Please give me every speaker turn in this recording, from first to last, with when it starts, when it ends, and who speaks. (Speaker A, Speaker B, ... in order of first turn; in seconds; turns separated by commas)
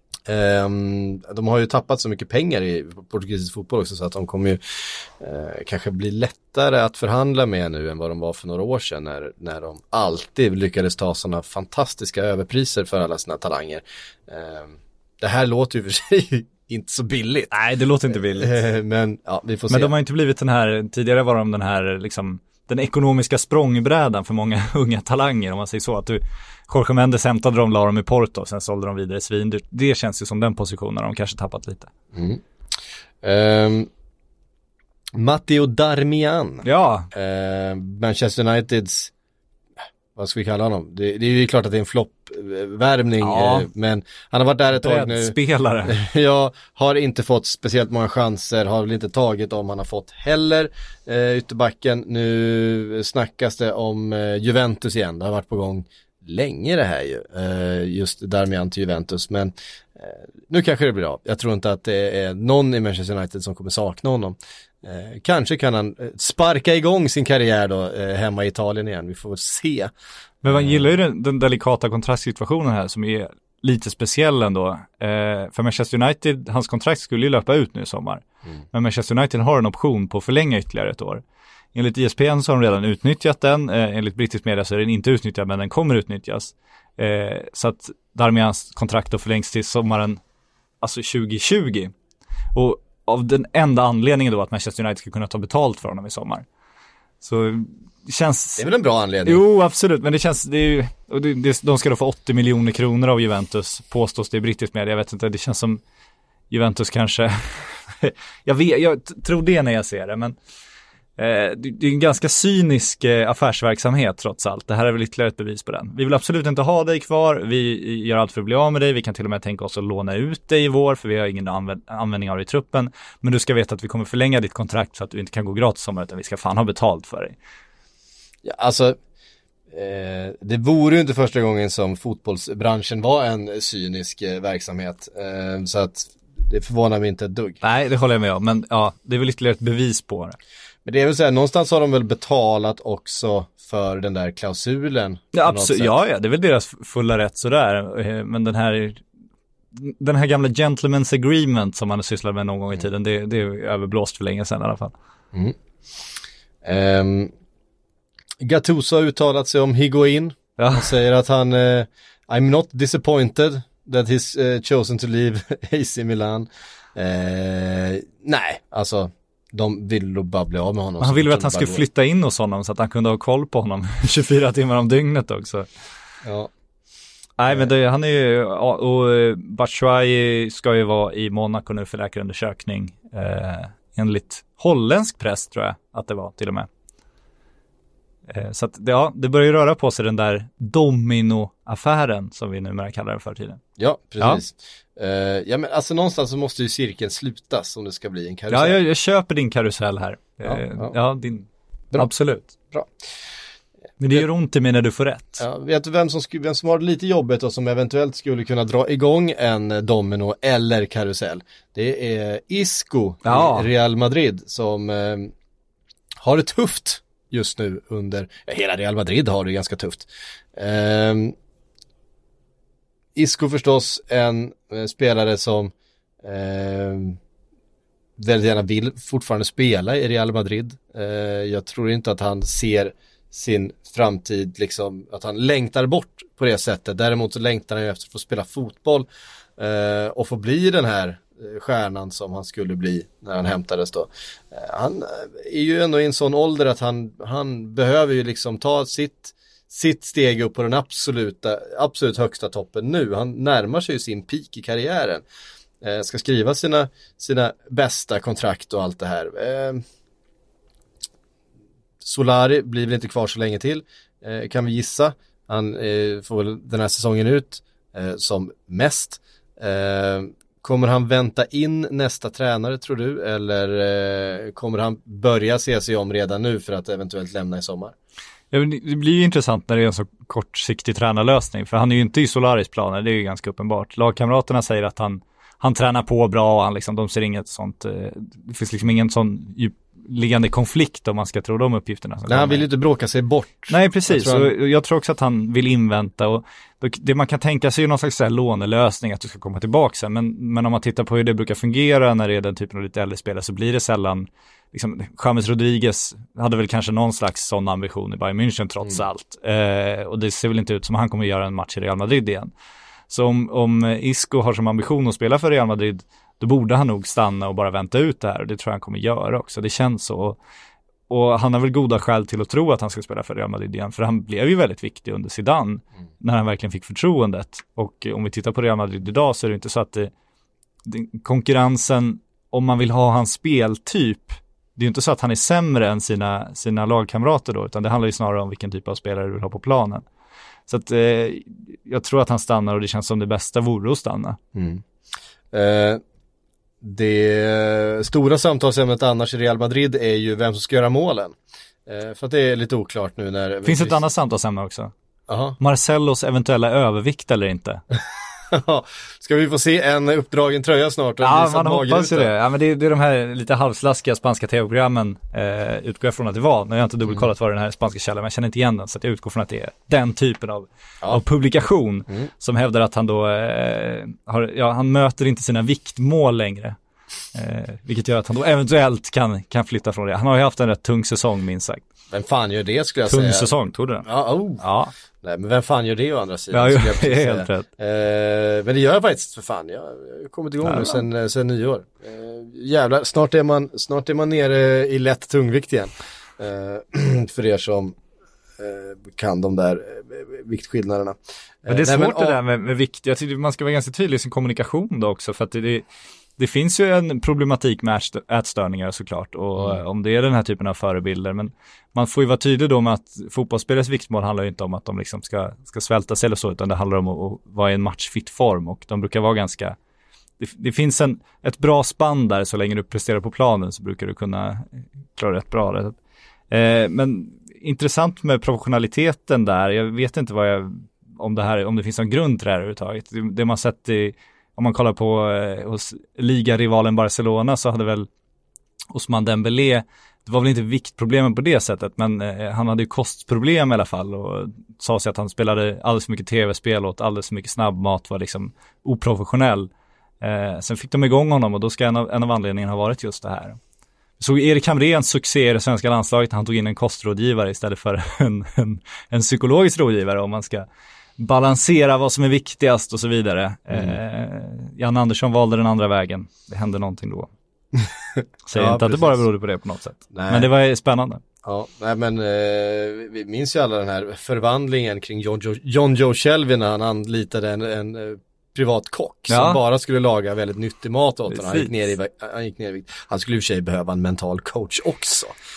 Speaker A: 0.3-17.5, Speaker B: 17.5-18.5, Speaker A: 18.4-19.9, Speaker B: 19.7-31.9, Speaker A: 32.1-32.4, Speaker A: 33.2-33.9, Speaker A: 35.1-39.1, Speaker B: 36.6-37.1, Speaker A: 40.1-45.4, Speaker B: 43.2-43.7, Speaker B: 44.7-46.0, Speaker A: 45.9-69.9, Speaker A: 70.4-70.9, Speaker B: 70.4-81.2, Speaker B: 81.7-90.2, Speaker B: 90.8-91.9, Speaker B: 92.5-96.5, Speaker B: 97.2-98.6, Speaker A: 98.6-99.4, Speaker B: 99.2-105.8, Speaker B: 106.5-110.4, Speaker B: 111.2-127.4, Speaker A: 128.4-129.0, Speaker A: 129.7-137.6, Speaker B: 137.6-140.4, Speaker A: 140.8-145.9, Speaker B: 145.3-149.0, Speaker B: 149.7-154.9, Speaker A: 156.6-157.3, Speaker A: 158.4-171.8, Speaker B: 160.6-160.9, Speaker B: 171.0-175.7, Speaker A: 176.2-176.5, Speaker B: 177.4-186.7, Speaker B: 188.3-193.6, Speaker A: 193.8-198.8, Speaker B: 198.5-202.5, Speaker A: 200.4-200.9, Speaker B: 204.0-205.4, Speaker A: 205.4-215.3, Speaker B: 213.2-213.7, Speaker A: 216.2-221.3, Speaker A: 223.2-227.2, Speaker A: 228.2-239.1, Speaker A: 239.6-255.2, Speaker A: 255.8-259.8, Speaker A: 262.0-277.9, Speaker B: 278.5-292.6, Speaker A: 292.3-294.5, Speaker B: 293.7-312.5, Speaker B: 313.1-320.4, Speaker B: 321.1-330.1, Speaker B: 330.8-340.0, Speaker B: 340.7-344.4, Speaker A: 344.5-344.8, Speaker A: 345.5-346.0, Speaker A: 346.8-354.0, Speaker B: 353.6-354.9, Speaker A: 355.3-355.6, Speaker B: 355.6-357.8, Speaker A: 358.5-362.3, Speaker B: 361.2-376.8, Speaker B: 377.3-381.8, Speaker A: 382.1-383.5, Speaker B: 383.1-384.1, Speaker A: 384.0-384.6, Speaker B: 384.6-384.9, Speaker A: 385.2-397.9, Speaker B: 386.5-387.6, Speaker B: 390.6-391.0, Speaker A: 398.6-402.4, Speaker B: 401.7-405.9, Speaker B: 406.4-419.8, Speaker B: 420.4-425.9, Speaker B: 426.5-438.1, Speaker B: 438.9-449.7, Speaker B: 450.2-453.6, Speaker B: 454.2-460.6, Speaker B: 461.2-467.3, Speaker A: 463.7-464.0, Speaker A: 467.8-469.2, Speaker B: 468.4-471.2, Speaker A: 470.1-470.5, Speaker A: 471.4-485.3, Speaker B: 479.3-479.6, Speaker B: 481.3-481.9